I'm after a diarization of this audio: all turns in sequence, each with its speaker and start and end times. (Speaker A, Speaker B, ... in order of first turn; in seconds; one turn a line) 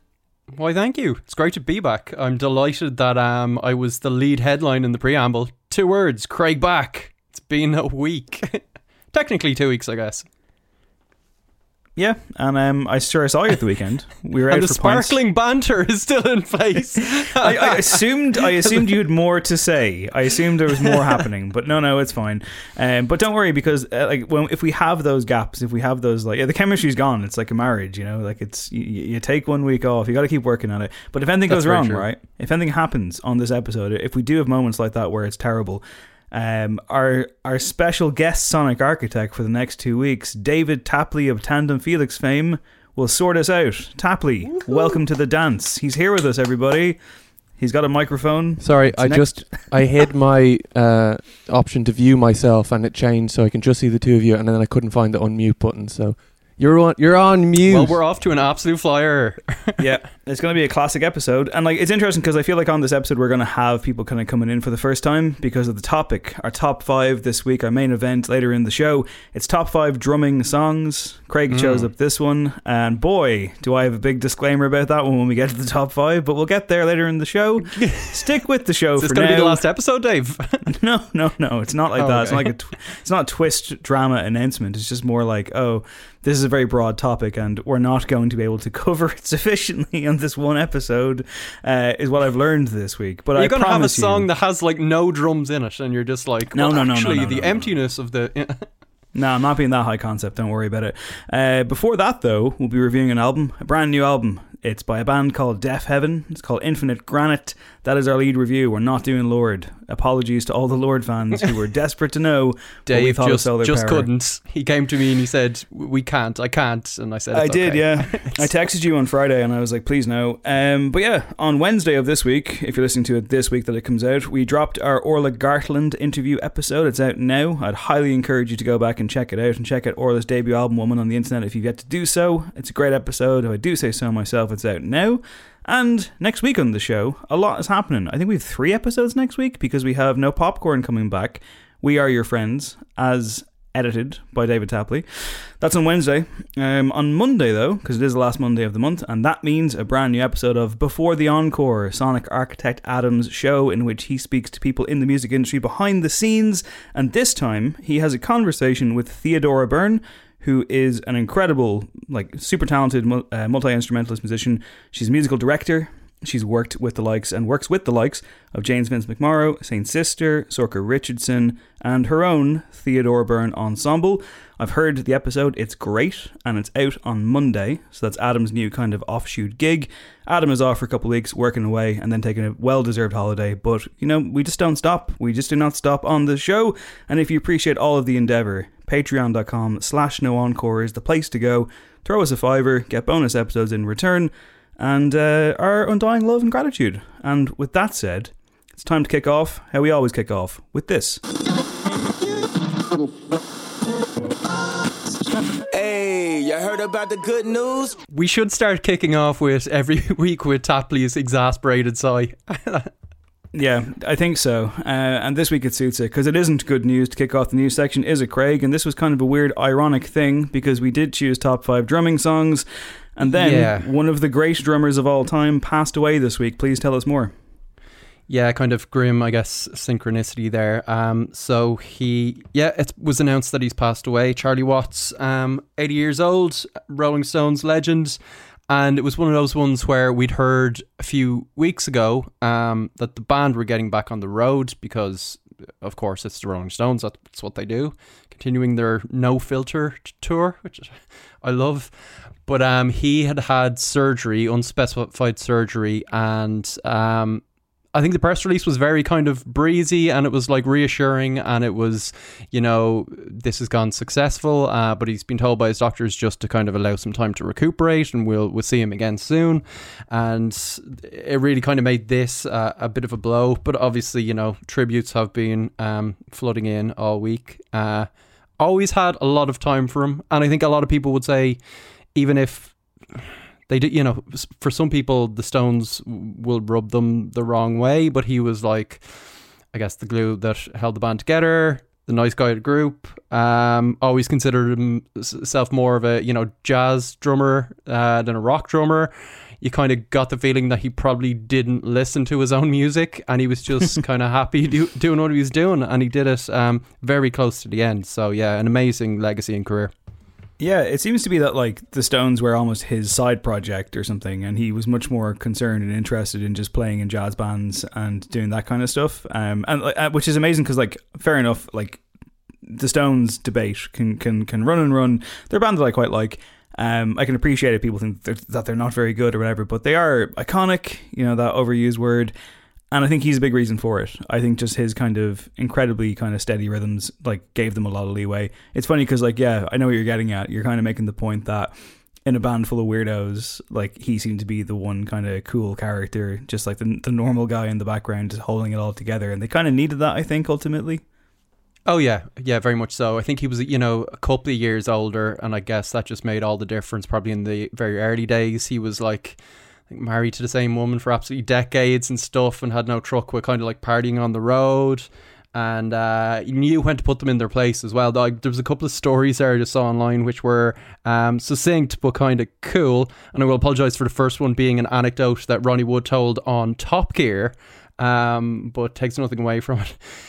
Speaker A: 0.5-8.6
Speaker A: 9.1-10.2
Speaker B: 12.0-15.2
Speaker A: 14.5-18.9
Speaker B: 17.4-47.0
Speaker A: 20.7-21.2
Speaker A: 31.5-32.0
Speaker B: 47.6-49.6
Speaker C: 48.6-58.0
Speaker A: 57.6-59.8
Speaker B: 59.8-79.6
Speaker A: 71.5-71.9
Speaker A: 77.7-78.3
Speaker A: 79.0-80.6
Speaker B: 80.7-94.3
Speaker A: 82.0-82.5
Speaker A: 93.3-98.7
Speaker B: 96.5-97.8
Speaker B: 99.1-114.1
Speaker A: 112.9-118.5
Speaker B: 117.3-201.2
Speaker D: 205.7-208.0
Speaker A: 208.1-212.9
Speaker B: 213.5-222.6
Speaker B: 223.2-227.3
Speaker A: 223.2-223.9
Speaker A: 228.3-251.9
Speaker A: 252.4-257.4
Speaker A: 257.9-278.1
Speaker A: 278.6-281.6
Speaker A: 282.1-289.0
Speaker A: 289.7-309.9
Speaker B: 310.6-322.0
Speaker B: 322.7-332.3
Speaker B: 332.9-341.7
Speaker B: 342.2-351.0
Speaker A: 351.9-359.4
Speaker A: 359.9-380.0